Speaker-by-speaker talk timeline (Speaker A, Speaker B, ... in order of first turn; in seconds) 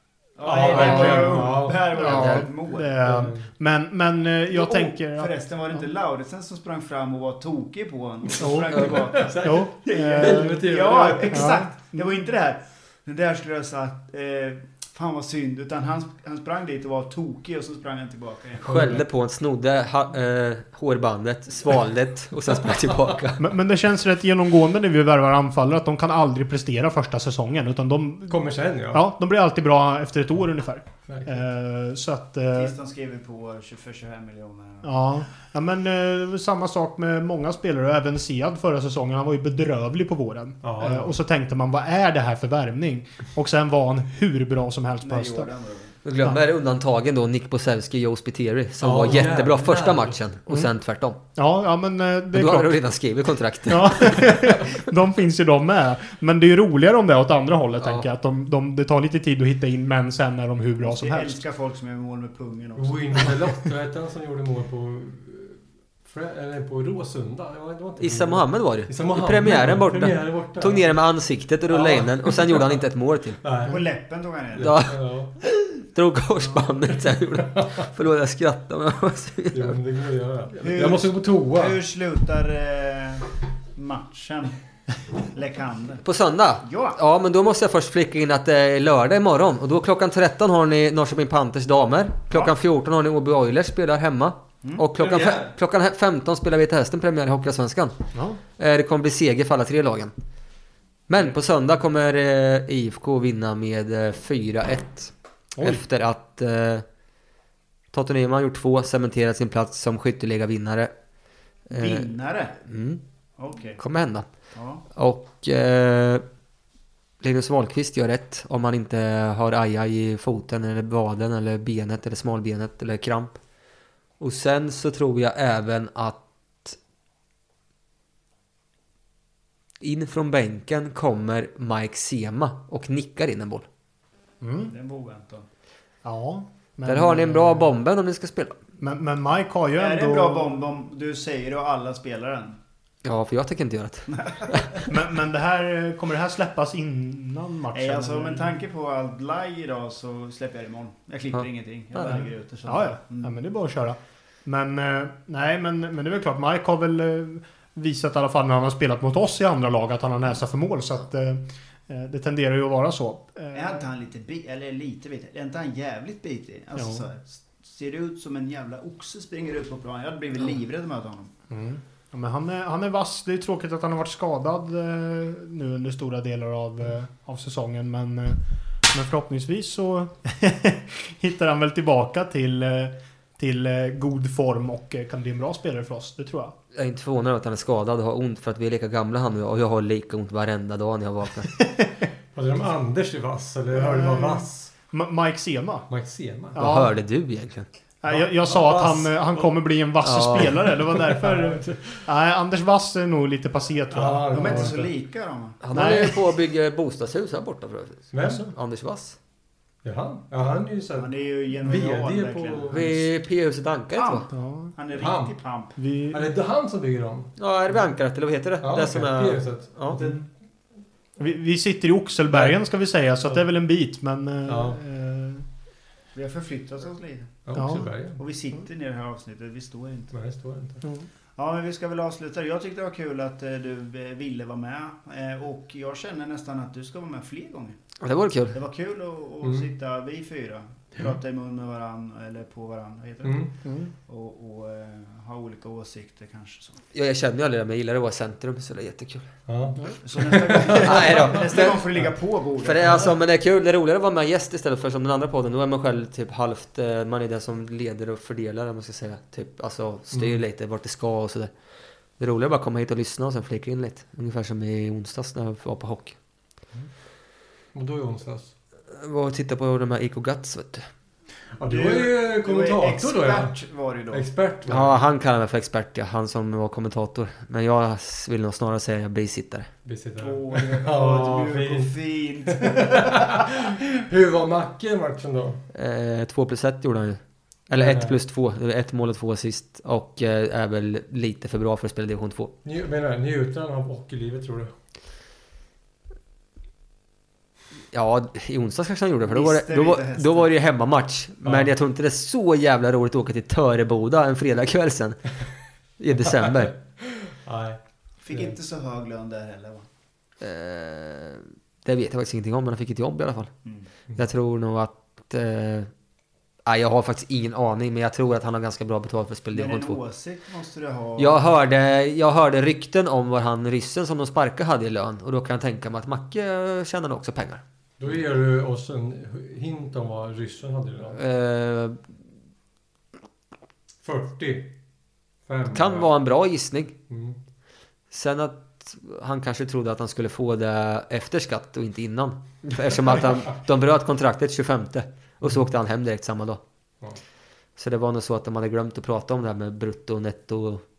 Speaker A: 0.3-3.0, 4.5-18.9, 32.5-35.0, 45.0-45.9, 60.8-63.4, 73.7-74.7, 80.6-84.5, 85.2-86.0, 86.6-87.0, 111.7-112.5, 113.4-113.8, 114.5-114.8, 134.7-135.4, 139.8-142.6, 144.1-144.8, 147.7-153.3, 163.5-171.3, 204.3-205.6, 211.0-212.9, 213.9-215.7, 226.1-230.1, 231.3-237.8, 238.5-243.5, 244.1-246.8, 250.0-253.1, 271.6-274.3, 280.2-283.4, 299.2-300.5, 308.2-309.9, 319.5-321.5
Speaker B: 0.4-2.0, 3.0-3.4, 8.4-11.6, 18.6-19.0, 28.3-29.0, 31.1-31.4, 40.6-41.1, 48.8-50.2, 62.8-71.0, 71.7-72.8, 73.4-73.8, 74.5-75.3, 77.4-77.7, 79.5-81.8, 95.0-95.5, 192.3-194.7, 195.9-196.6, 198.1-199.6, 200.4-202.1, 203.9-204.8, 208.1-208.5, 209.8-213.0, 215.0-215.3, 216.1-217.3, 218.6-220.3, 222.3-222.6, 224.4-224.8, 227.4-228.2, 230.1-230.8, 239.4-239.7, 243.2-243.5, 249.5-251.2, 260.1-260.4, 267.7-268.5, 271.6-273.6, 274.1-275.0, 279.8-285.6, 287.8-288.1, 292.6-294.7, 301.4-301.7, 307.0-308.5, 328.0-331.2, 334.0-334.7, 335.4-336.1, 337.1-337.4
Speaker C: 0.6-5.8, 9.4-12.1, 23.4-32.7, 34.8-45.5, 51.3-52.8, 53.7-61.4, 98.1-98.4, 105.6-105.8, 134.4-134.7, 136.0-137.7, 138.8-140.5, 144.9-148.5, 152.0-163.9, 166.8-167.0, 171.5-186.5, 193.7-195.9, 196.5-196.9, 198.0-204.9, 205.7-206.2, 208.2-208.5, 214.3-214.7, 215.8-216.3, 219.9-220.2, 221.2-225.4, 227.5-227.9, 243.6-243.9
Speaker D: 2.0-2.5, 18.6-23.4, 46.0-51.2, 52.3-54.6, 57.8-58.0, 68.0-73.4, 74.6-79.8, 86.0-98.0, 98.5-100.1, 101.1-106.8, 107.9-110.9, 111.7-112.1, 112.6-113.0, 113.8-114.3, 114.9-116.2, 117.2-123.4, 124.2-126.8, 129.8-133.7, 136.8-138.6, 143.0-144.8, 186.7-191.5, 196.5-197.7, 200.0-200.6, 205.6-209.2, 212.7-214.3, 217.4-220.0, 238.0-238.6, 246.9-249.3, 250.7-251.9, 252.6-261.5, 262.2-266.2, 268.9-270.9, 274.7-279.7, 285.7-292.5, 297.9-305.3, 306.0-306.7, 310.4-313.5, 314.1-315.9, 316.6-320.0, 321.2-327.6, 331.1-332.0, 335.7-336.9, 338.1-346.6, 347.8-350.8